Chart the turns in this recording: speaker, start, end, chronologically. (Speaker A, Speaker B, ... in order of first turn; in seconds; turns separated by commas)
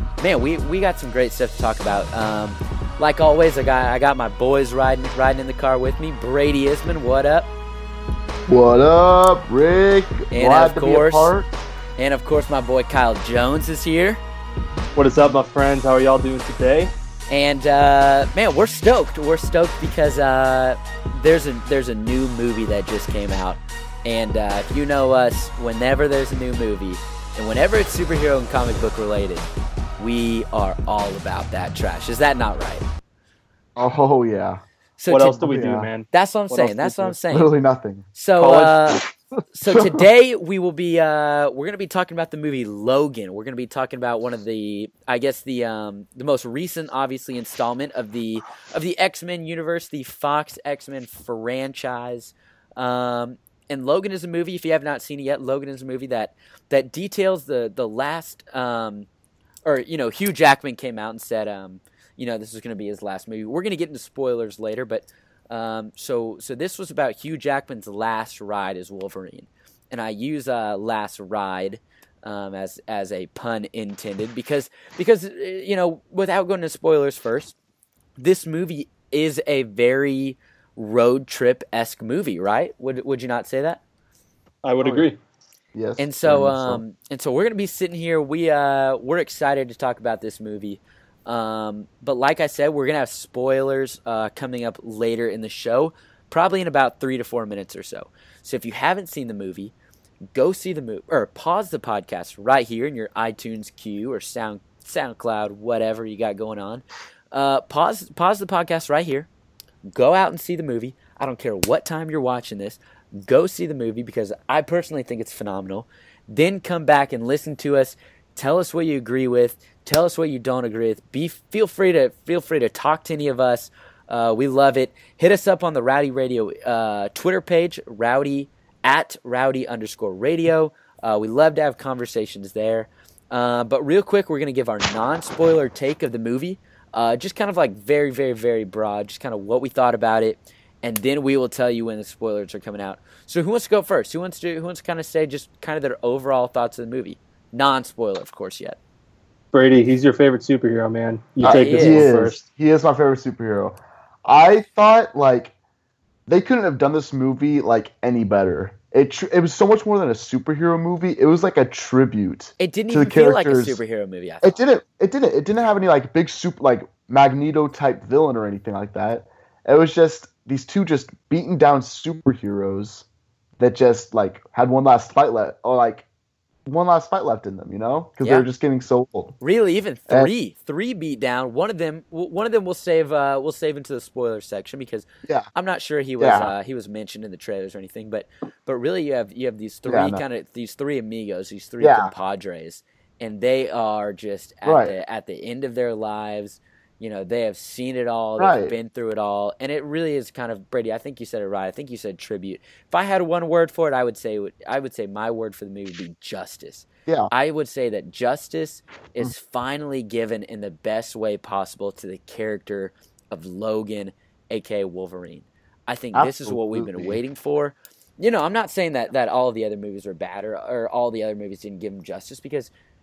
Speaker A: 0.2-7.5, Speaker B: 8.5-11.5, Speaker A: 10.3-11.3, Speaker A: 12.0-14.2, Speaker C: 15.0-16.9, Speaker A: 17.3-29.5, Speaker A: 30.0-32.9, Speaker B: 33.8-34.6, Speaker A: 35.0-35.5, Speaker C: 35.1-37.2, Speaker B: 35.4-35.9, Speaker A: 36.1-37.5, Speaker B: 37.3-38.1, Speaker A: 38.1-39.0, Speaker C: 38.4-39.1, Speaker A: 39.5-59.1, Speaker A: 59.6-77.6, Speaker A: 78.2-83.8, Speaker C: 84.6-85.2, Speaker B: 84.8-85.1, Speaker B: 85.7-86.8, Speaker A: 86.0-99.7, Speaker A: 100.3-109.3, Speaker A: 109.9-148.8, Speaker C: 149.5-152.4, Speaker B: 151.4-155.5, Speaker A: 151.4-152.1, Speaker B: 156.3-163.8, Speaker A: 162.6-164.6, Speaker B: 164.4-173.1, Speaker B: 173.6-176.1, Speaker B: 176.7-179.4, Speaker A: 178.2-178.5, Speaker A: 179.4-222.7, Speaker B: 186.2-186.5, Speaker B: 189.9-190.2, Speaker B: 191.8-192.1, Speaker B: 194.7-194.9, Speaker B: 198.4-198.7, Speaker B: 216.2-217.2